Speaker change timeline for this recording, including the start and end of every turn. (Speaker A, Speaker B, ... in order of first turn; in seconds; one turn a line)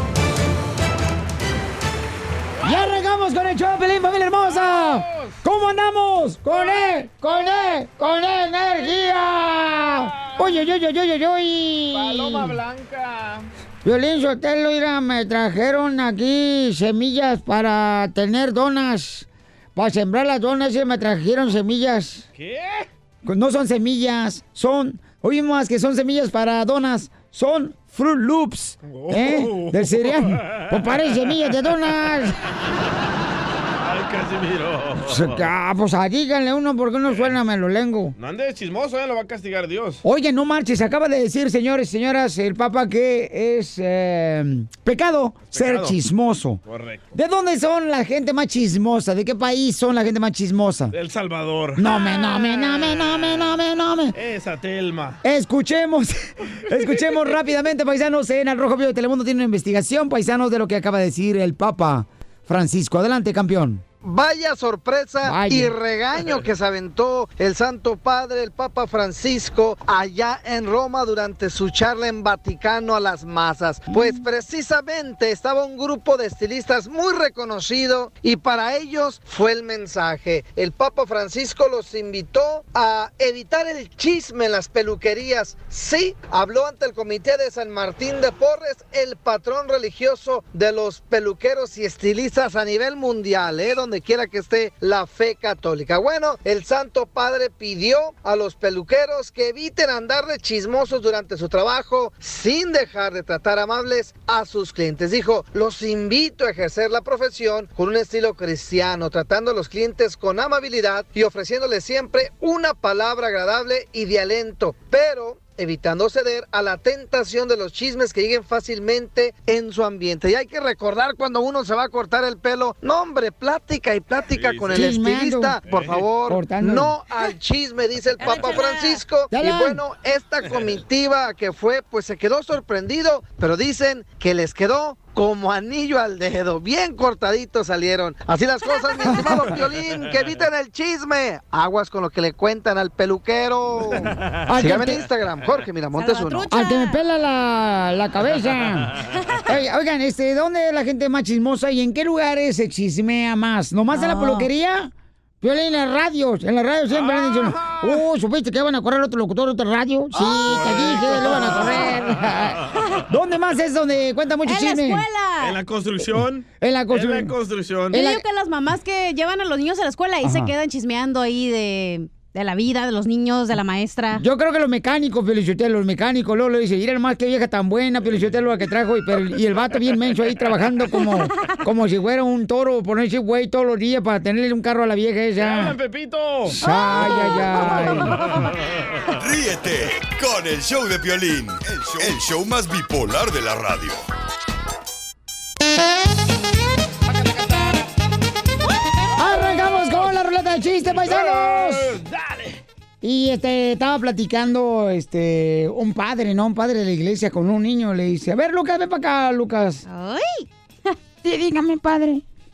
Speaker A: 2.6-12.6
Speaker B: 4.5-5.4
Speaker B: 9.9-10.6
Speaker B: 11.9-13.5
Speaker A: 13.8-22.2
Speaker B: 22.3-22.9
Speaker A: 23.2-32.4
Speaker B: 28.8-30.9
Speaker B: 33.8-35.4
Speaker A: 35.0-38.1
Speaker B: 38.2-40.0
Speaker A: 40.0-46.6
Speaker B: 45.5-46.0
Speaker B: 46.6-47.1
Speaker A: 47.1-50.9
Speaker B: 50.9-53.6
Speaker A: 51.8-54.1
Speaker B: 54.1-55.2
Speaker A: 55.2-56.1
Speaker A: 56.6-63.8
Speaker C: 64.0-146.5
Speaker A: 65.2-65.7
Speaker A: 73.9-74.2
Speaker B: 124.3-124.9
Speaker A: 124.7-125.6
Speaker B: 125.7-126.0
Speaker A: 126.2-126.9
Speaker D: 128.2-129.0
Speaker A: 129.3-129.8
Speaker A: 139.1-139.5
Speaker B: 143.9-144.4
Speaker A: 144.5-145.0
Speaker D: 145.9-147.0
Speaker A: 146.5-165.0
Speaker D: 149.1-149.4
Speaker D: 153.9-154.5
Speaker B: 156.9-158.0
Speaker B: 160.3-161.9
Speaker D: 161.4-161.9
Speaker D: 162.7-163.0
Speaker D: 164.4-165.6
Speaker B: 165.4-168.0
Speaker A: 166.6-167.3
Speaker A: 167.9-168.2
Speaker D: 167.9-174.2
Speaker A: 170.2-170.5
Speaker A: 174.2-185.8
Speaker B: 185.4-188.0
Speaker A: 186.5-188.2
Speaker D: 186.7-186.9
Speaker E: 189.1-194.1
Speaker A: 199.2-202.0
Speaker B: 201.0-202.6
Speaker A: 203.0-209.8
Speaker D: 209.9-210.9
Speaker A: 211.2-212.2